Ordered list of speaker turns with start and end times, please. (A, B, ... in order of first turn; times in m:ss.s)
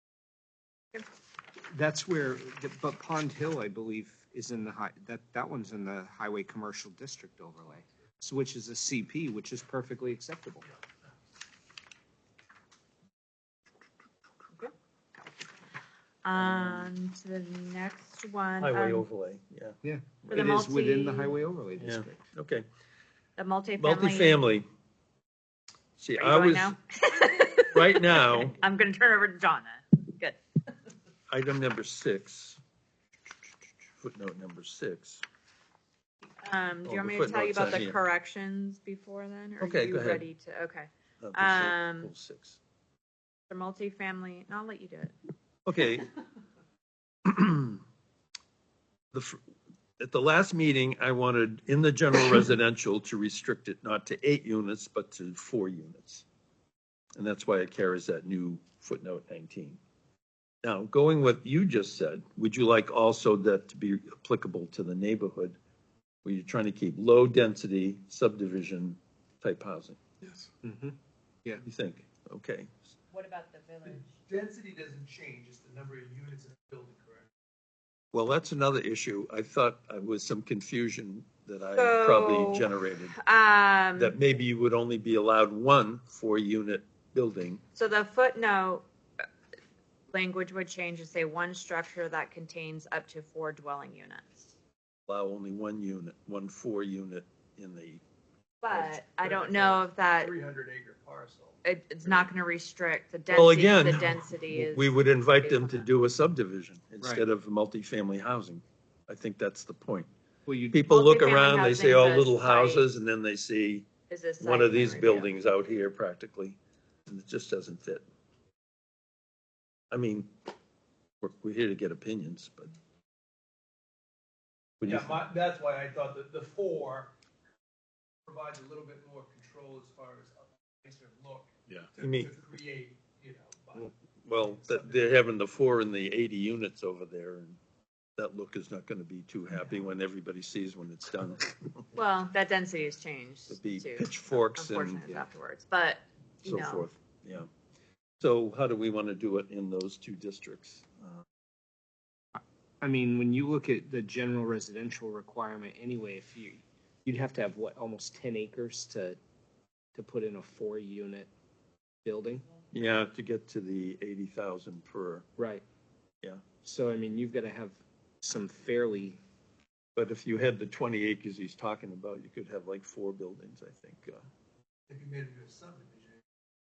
0:01.7-0:10.7 A
0:16.2-0:19.1 B
0:16.4-0:16.9 C
0:18.6-0:19.8 C
0:19.8-0:22.2 A
0:20.3-0:21.4 B
0:21.8-0:22.7 C
0:23.4-0:24.4 B
0:23.8-0:24.7 C
0:26.0-0:26.7 C
0:26.2-0:30.4 B
0:27.7-0:28.6 C
0:31.3-0:32.6 C
0:34.0-0:35.2 C
0:36.4-0:42.1 B
0:36.8-0:38.0 C
0:39.6-0:40.2 C
0:41.2-0:42.6 C
0:43.5-0:45.2 B
0:45.7-0:46.1 C
0:47.2-0:47.8 C
0:49.1-0:49.4 C
0:50.0-0:56.2 C
0:57.2-0:59.8 C
1:00.6-1:05.6 C
1:06.2-1:10.0 C
1:10.6-1:11.6 A
1:11.6-1:12.8 C
1:13.1-1:14.2 B
1:13.8-1:17.3 D
1:18.1-1:23.2 C
1:21.8-1:24.2 B
1:24.0-1:27.6 C
1:27.8-1:28.8 B
1:30.1-1:34.5 B
1:35.1-1:38.0 C
1:38.6-1:40.3 B
1:39.2-1:41.6 D
1:41.6-1:45.9 B
1:43.3-1:50.1 C
1:50.5-1:50.8 A
1:50.7-1:53.9 C
1:50.9-1:52.9 B
1:54.1-1:55.3 B
1:54.4-1:58.0 C
1:59.9-2:00.3 C
2:01.2-2:02.7 C
2:04.8-2:05.2 C
2:04.8-2:07.1 D
2:08.3-2:15.0 D
2:11.9-2:12.3 C
2:14.3-2:17.6 C
2:18.2-2:21.6 C
2:21.9-2:26.9 B
2:23.5-2:25.1 C
2:26.4-2:27.5 C
2:28.2-2:31.2 C
2:32.4-2:39.2 A
2:40.0-2:41.3 A
2:42.0-2:42.5 A
2:42.7-2:45.3 C
2:45.4-2:45.6 A
2:46.6-2:49.2 A
2:50.0-2:54.2 C
2:54.9-2:56.2 D